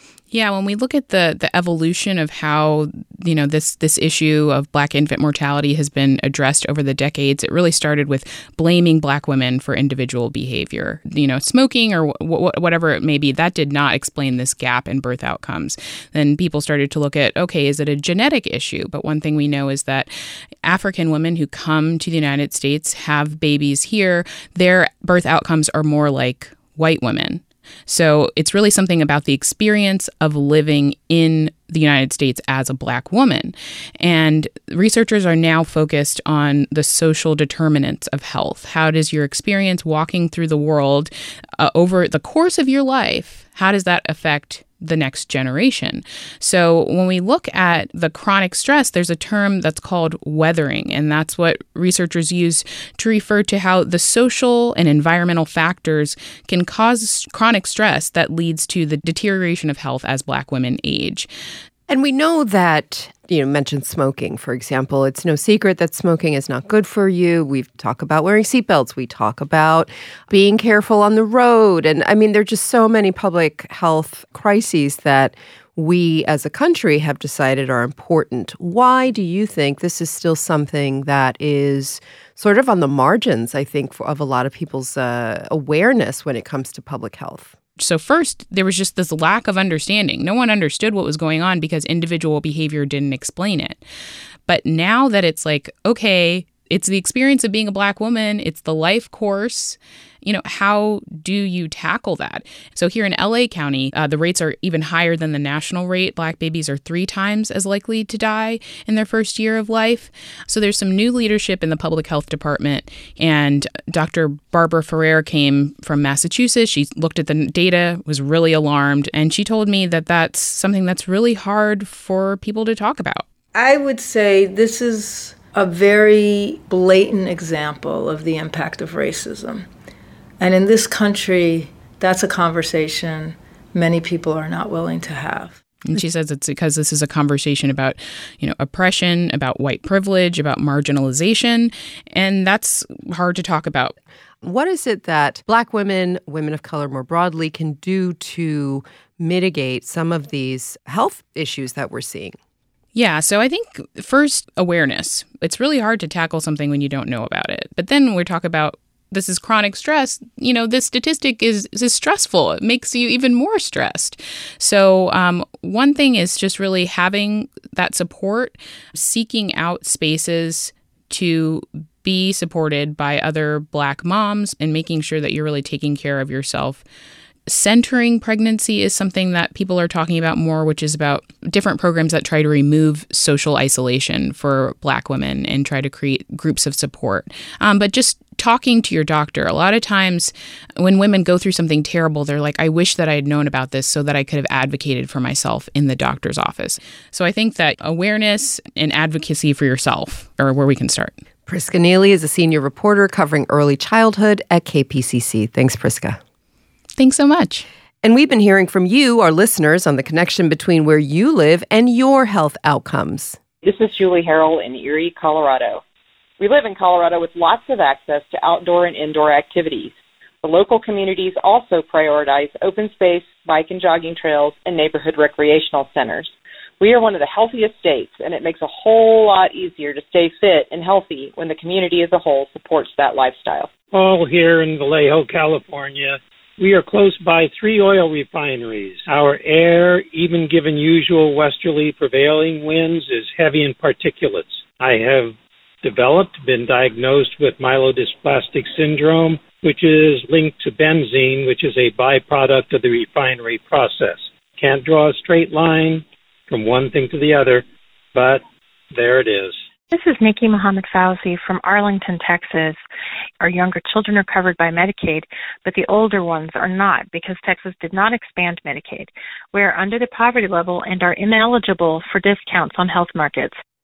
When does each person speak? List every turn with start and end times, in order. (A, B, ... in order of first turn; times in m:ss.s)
0:00.3-0:20.1 A
0:20.6-1:01.3 A
1:01.9-1:27.5 B
1:27.8-1:33.8 A
1:34.5-2:03.2 A
2:03.5-2:09.7 C
2:10.4-2:15.6 C
2:15.9-2:24.0 A
2:24.4-2:32.4 B
2:32.9-2:56.8 A
2:57.5-3:21.2 A
3:21.5-3:26.2 B
3:27.0-3:27.6 A
3:28.0-3:33.4 B
3:33.6-3:35.8 D
3:36.4-3:53.7 D
3:53.9-4:19.6 E
4:19.9-4:22.8 F
4:23.4-4:33.6 F